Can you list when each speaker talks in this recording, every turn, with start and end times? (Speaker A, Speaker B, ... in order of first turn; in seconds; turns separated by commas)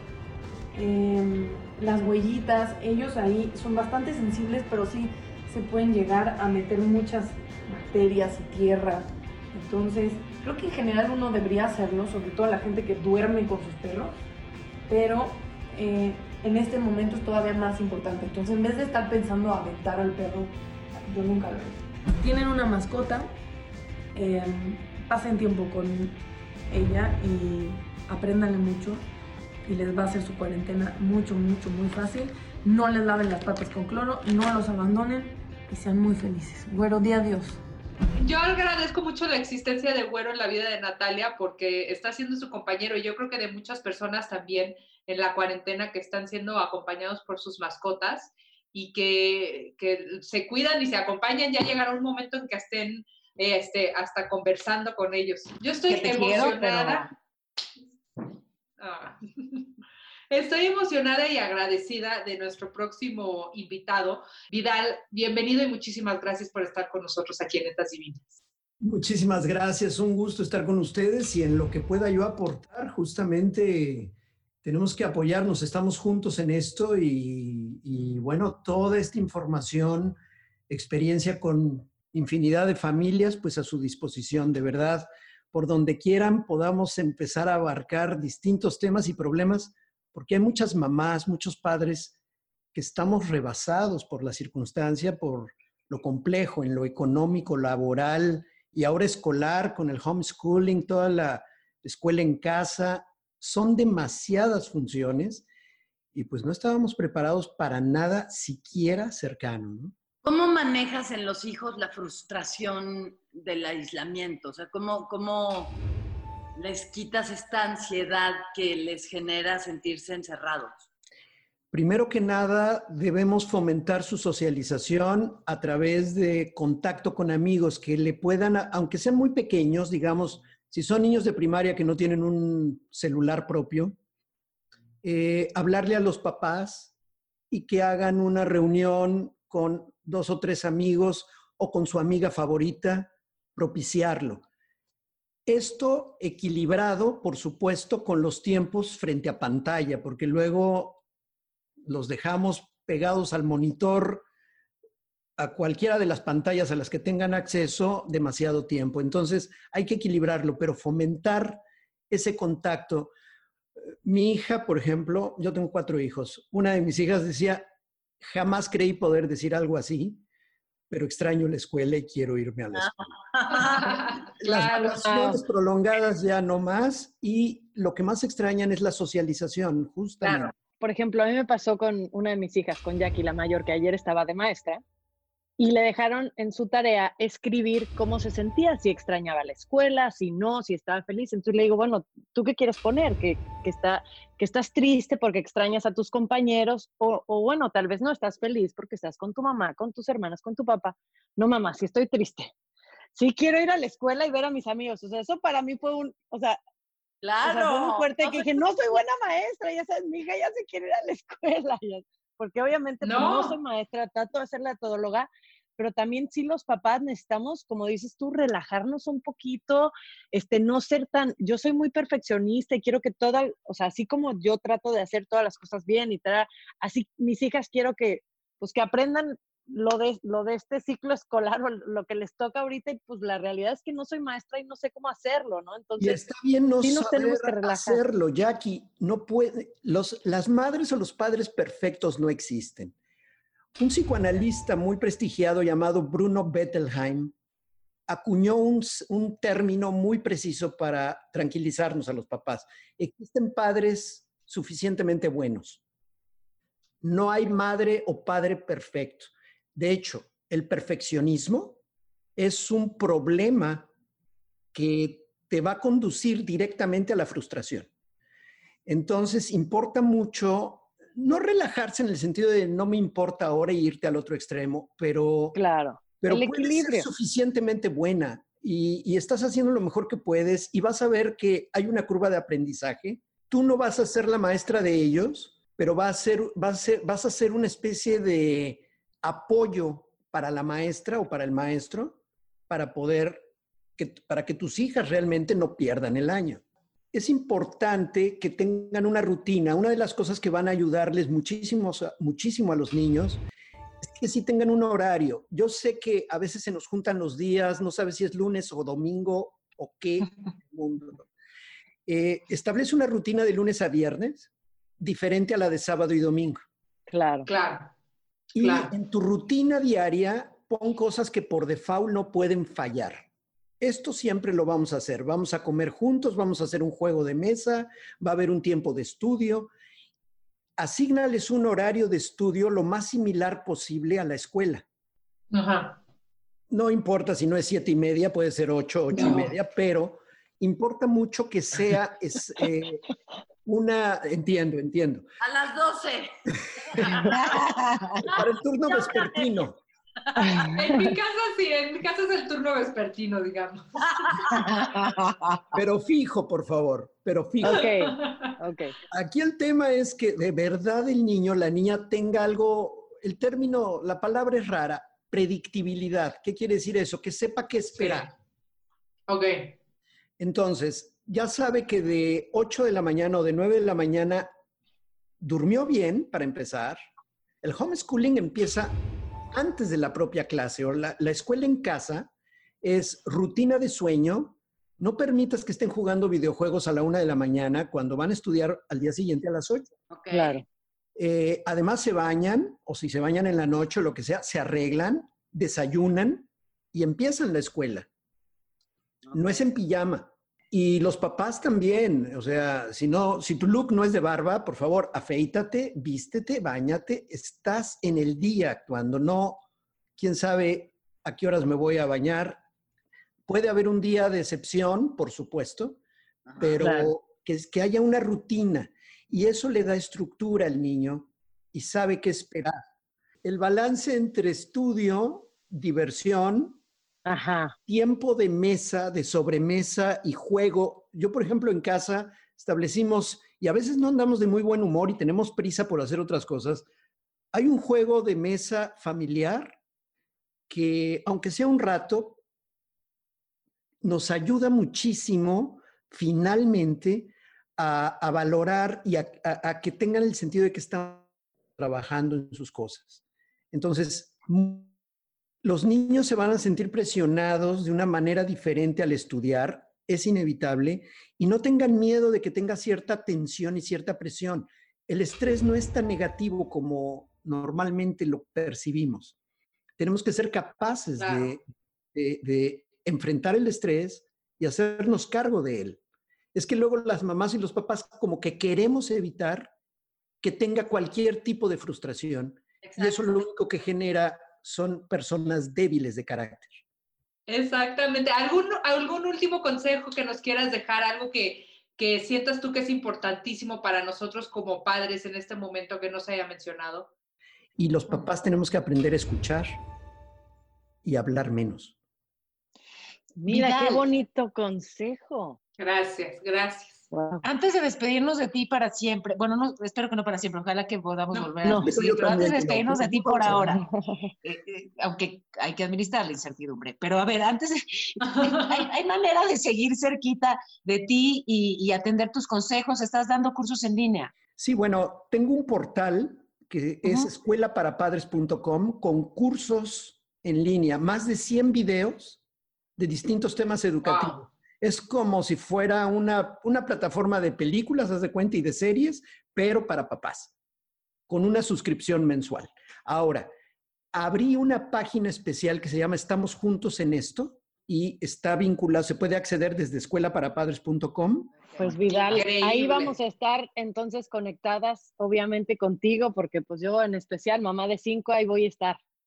Speaker A: 0.7-14.1, Speaker A: 14.9-20.5, Speaker A: 21.1-23.3, Speaker A: 24.1-26.2, Speaker A: 26.7-29.0, Speaker A: 29.7-37.6, Speaker B: 38.2-57.1, Speaker C: 55.9-56.8, Speaker D: 56.0-57.0, Speaker B: 58.8-59.6, Speaker B: 60.3-68.3, Speaker E: 68.8-74.1, Speaker E: 74.6-80.2, Speaker E: 80.7-92.1, Speaker E: 92.7-105.5, Speaker E: 106.1-109.9, Speaker F: 110.2-115.7, Speaker F: 116.6-120.8, Speaker E: 121.7-134.0, Speaker E: 135.0-136.9, Speaker E: 137.5-144.4, Speaker E: 145.5-151.0, Speaker E: 151.8-154.2, Speaker E: 155.4-163.1, Speaker E: 164.1-167.7, Speaker E: 168.2-170.2, Speaker E: 170.9-172.9, Speaker F: 172.8-174.0, Speaker B: 173.5-175.4, Speaker E: 174.4-180.5, Speaker F: 180.2-180.5, Speaker C: 180.8-184.8, Speaker C: 185.6-202.5, Speaker C: 203.1-206.6, Speaker F: 207.2-209.0, Speaker C: 207.4-236.3, Speaker B: 213.0-213.6, Speaker E: 236.0-242.9, Speaker C: 236.8-238.0, Speaker E: 243.8-247.3, Speaker E: 248.1-255.8, Speaker E: 257.0-261.8, Speaker E: 262.4-263.9, Speaker E: 264.7-267.9, Speaker E: 268.9-275.6, Speaker C: 275.5-277.1, Speaker E: 276.2-292.2, Speaker E: 292.7-293.5, Speaker E: 294.0-303.4, Speaker E: 304.0-311.3, Speaker E: 312.1-316.6, Speaker C: 317.1-317.5, Speaker B: 317.5-317.9, Speaker E: 318.5-323.3, Speaker B: 318.6-318.9, Speaker E: 323.8-329.7, Speaker E: 330.8-334.9, Speaker B: 335.5-335.9, Speaker E: 336.7-343.0, Speaker E: 343.7-345.2, Speaker F: 345.4-346.3, Speaker F: 346.9-347.2, Speaker E: 347.0-347.2, Speaker D: 347.3-348.2, Speaker E: 348.2-349.8, Speaker C: 350.4-351.1, Speaker B: 350.6-354.4, Speaker F: 354.2-354.6, Speaker D: 355.2-355.6, Speaker E: 355.7-357.9, Speaker C: 357.6-358.9, Speaker B: 357.7-358.5, Speaker E: 359.1-368.3, Speaker B: 368.0-368.3, Speaker B: 369.3-369.8, Speaker E: 370.4-374.5, Speaker E: 375.4-377.0, Speaker E: 377.6-379.0, Speaker E: 379.5-382.3, Speaker E: 382.8-389.9, Speaker F: 390.1-390.6, Speaker C: 390.3-390.6, Speaker E: 391.2-398.1, Speaker F: 399.2-399.6, Speaker E: 399.3-409.6, Speaker E: 410.2-412.6, Speaker E: 413.5-416.0, Speaker E: 416.6-422.8, Speaker C: 416.8-417.1, Speaker E: 423.4-426.8, Speaker C: 427.3-427.8, Speaker E: 427.9-436.9, Speaker E: 437.5-439.8, Speaker E: 440.7-442.4, Speaker E: 444.0-454.9, Speaker E: 455.6-469.4, Speaker E: 470.0-476.0, Speaker B: 471.2-471.6, Speaker E: 476.5-479.7, Speaker E: 480.4-486.8, Speaker B: 482.8-483.2, Speaker B: 487.5-497.1, Speaker E: 497.8-499.8, Speaker E: 501.0-501.9, Speaker C: 503.4-505.6, Speaker D: 503.4-504.1, Speaker B: 505.8-507.1, Speaker C: 507.1-507.4, Speaker D: 507.4-513.9, Speaker C: 511.6-511.9, Speaker E: 511.7-513.8, Speaker C: 513.5-514.3, Speaker D: 514.4-524.3, Speaker B: 518.2-518.9, Speaker E: 524.6-532.4, Speaker E: 533.0-540.5, Speaker B: 534.0-534.5, Speaker E: 541.3-543.5, Speaker E: 544.1-551.8, Speaker C: 551.8-559.0, Speaker B: 552.1-553.1